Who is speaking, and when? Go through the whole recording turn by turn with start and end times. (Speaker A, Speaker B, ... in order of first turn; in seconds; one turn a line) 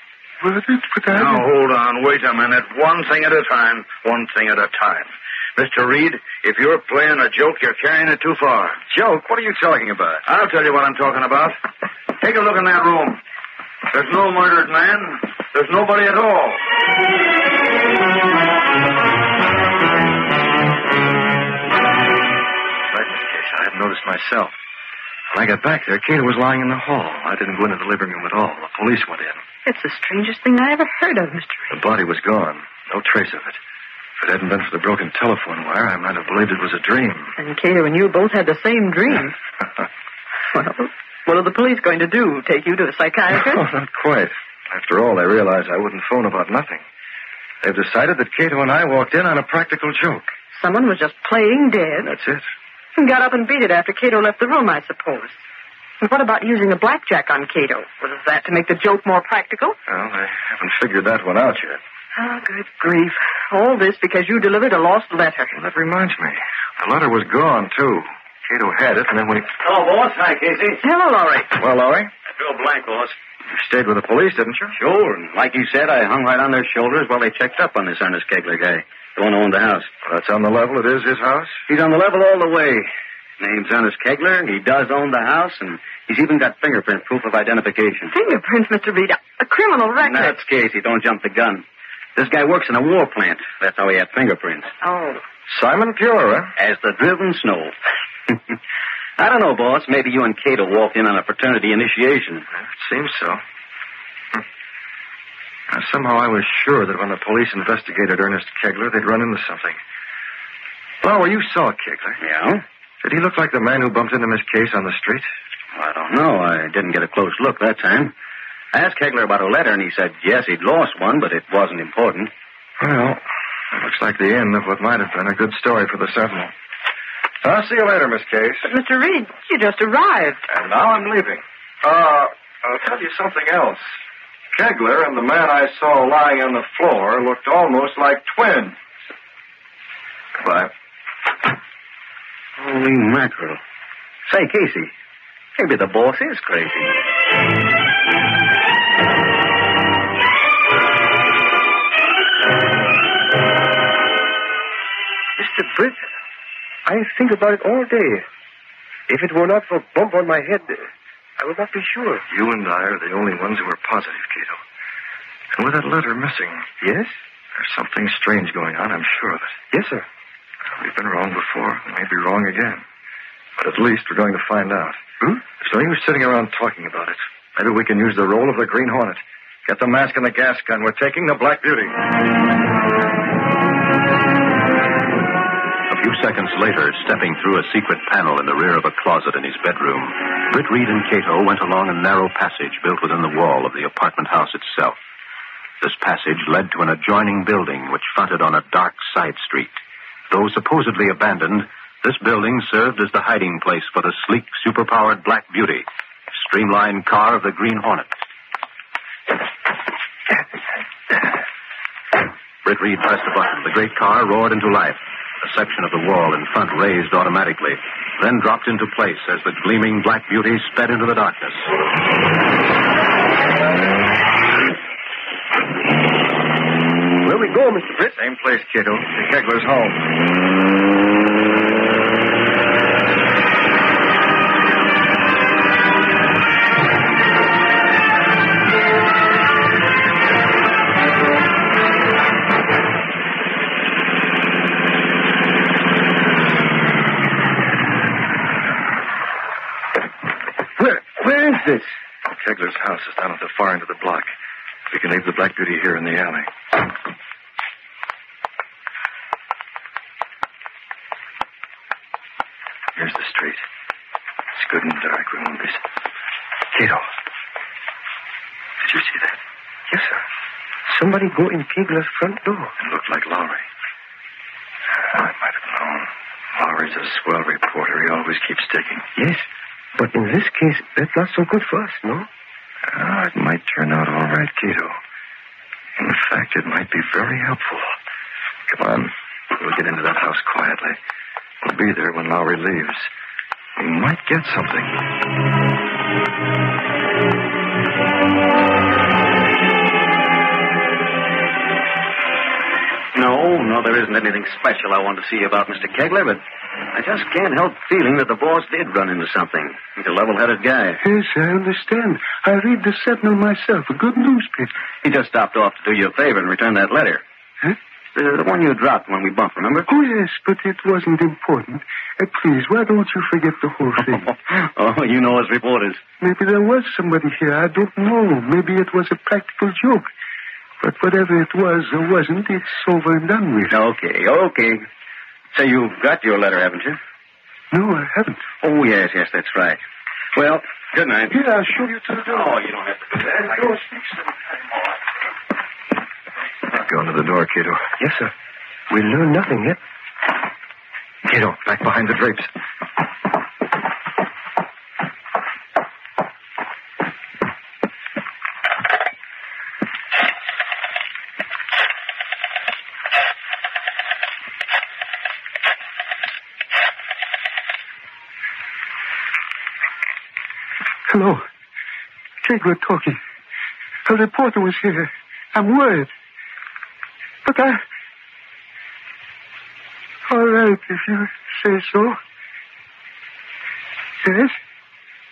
Speaker A: 0.4-1.4
Speaker B: 1.1-8.8
Speaker C: 8.9-10.2
Speaker B: 10.2-11.6
Speaker B: 12.2-13.2
Speaker B: 13.9-16.6
Speaker C: 22.9-24.6
Speaker C: 25.3-29.4
Speaker D: 29.7-31.8
Speaker C: 31.7-33.6
Speaker C: 34.2-37.3
Speaker D: 37.4-39.4
Speaker D: 40.5-43.7
Speaker C: 43.3-46.8
Speaker C: 47.6-50.3
Speaker D: 50.5-52.1
Speaker C: 52.0-52.5
Speaker D: 53.0-55.4
Speaker D: 56.0-59.8
Speaker C: 59.9-61.8
Speaker D: 62.1-65.5
Speaker C: 65.5-69.5
Speaker E: 69.6-70.8
Speaker D: 70.8-71.6
Speaker C: 71.6-72.1
Speaker E: 72.3-73.2
Speaker C: 73.5-74.7
Speaker E: 74.8-79.9
Speaker C: 80.0-81.6
Speaker E: 81.7-88.1
Speaker D: 88.1-90.4
Speaker E: 90.0-91.7
Speaker E: 92.2-94.7
Speaker D: 94.8-95.2
Speaker C: 95.5-96.5
Speaker E: 96.6-97.7
Speaker E: 99.2-102.5
Speaker C: 102.6-103.4
Speaker C: 105.7-109.8
Speaker C: 111.0-112.2
Speaker E: 112.2-112.6
Speaker C: 113.0-115.3
Speaker E: 115.8-118.1
Speaker E: 118.7-122.3
Speaker C: 122.8-126.5
Speaker C: 127.4-128.7
Speaker D: 128.6-130.5
Speaker C: 130.5-133.8
Speaker C: 134.5-138.8
Speaker C: 140.4-140.7
Speaker E: 142.6-143.6
Speaker E: 144.3-144.9
Speaker E: 145.6-147.0
Speaker F: 155.4-156.1
Speaker F: 156.9-158.2
Speaker F: 159.1-162.2
Speaker C: 162.3-164.6
Speaker C: 165.5-166.7
Speaker F: 166.8-167.1
Speaker C: 167.6-169.6
Speaker F: 169.7-170.1
Speaker C: 170.7-172.8
Speaker C: 173.6-182.0
Speaker G: 185.9-195.0
Speaker G: 195.8-208.1
Speaker G: 212.6-221.7
Speaker F: 227.2-228.2
Speaker C: 228.1-230.1
Speaker F: 250.8-251.9
Speaker C: 252.3-254.3
Speaker C: 254.9-256.5
Speaker C: 263.0-263.6
Speaker C: 264.6-265.8
Speaker C: 268.8-269.4
Speaker F: 269.9-270.2
Speaker F: 270.9-272.7
Speaker C: 272.8-273.6
Speaker C: 275.0-279.1
Speaker F: 279.2-279.4
Speaker F: 280.0-282.3
Speaker C: 282.9-285.0
Speaker C: 286.0-287.9
Speaker C: 288.7-291.0
Speaker C: 291.6-293.1
Speaker C: 293.8-295.0
Speaker E: 303.1-306.4
Speaker E: 306.9-311.0
Speaker A: 311.0-314.7
Speaker E: 315.0-317.2
Speaker E: 318.1-319.9
Speaker A: 319.9-324.3
Speaker E: 324.0-326.0
Speaker A: 326.2-330.1
Speaker A: 330.8-333.8
Speaker E: 333.7-334.9
Speaker E: 335.5-337.0
Speaker A: 337.7-338.5
Speaker E: 338.6-339.8
Speaker E: 340.4-341.4
Speaker A: 341.3-342.6
Speaker E: 342.3-343.8
Speaker A: 343.4-344.0
Speaker C: 346.7-347.9
Speaker F: 348.0-348.3
Speaker F: 348.9-349.8
Speaker C: 351.3-352.5
Speaker A: 371.1-371.4
Speaker A: 372.4-373.2
Speaker A: 374.1-376.1
Speaker A: 377.4-377.8
Speaker A: 380.3-382.2
Speaker A: 384.2-384.6